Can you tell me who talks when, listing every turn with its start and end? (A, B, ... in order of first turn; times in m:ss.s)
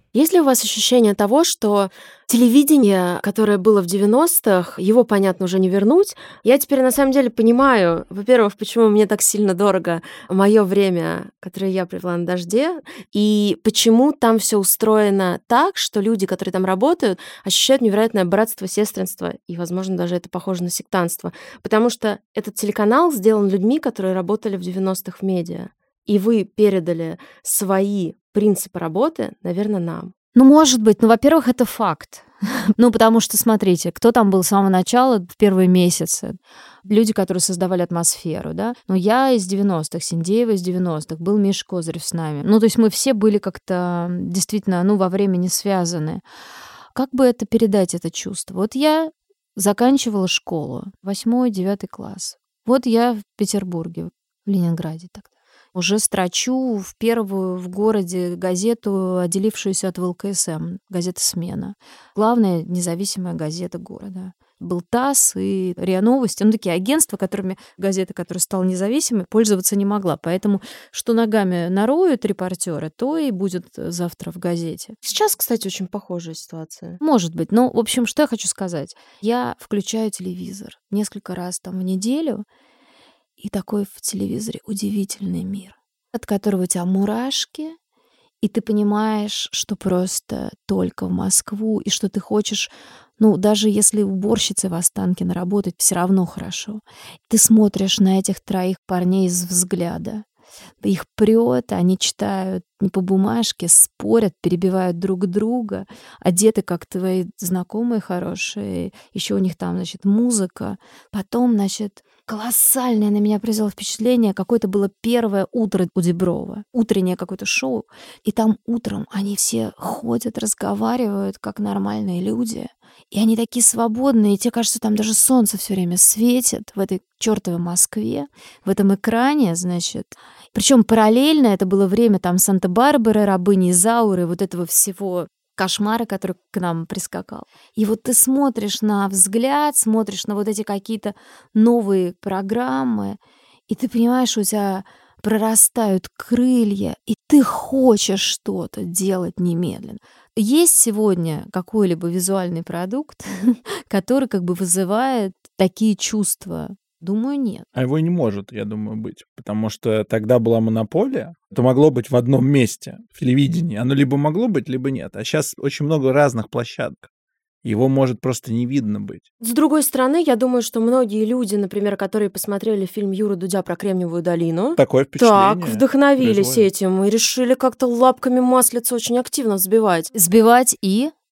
0:00.1-0:30.1 A
0:30.3-0:46.2 B
0:46.9-1:15.0 B
1:15.0-1:17.0 A
1:17.0-1:22.4 B
1:23.4-1:27.8 B
1:28.4-1:40.2 B
1:40.8-2:23.2 B
2:23.7-2:37.7 B
2:37.7-2:47.1 C
2:47.6-2:49.2 C
2:49.4-3:00.1 A
2:54.8-2:56.7 C
3:00.1-3:01.1 B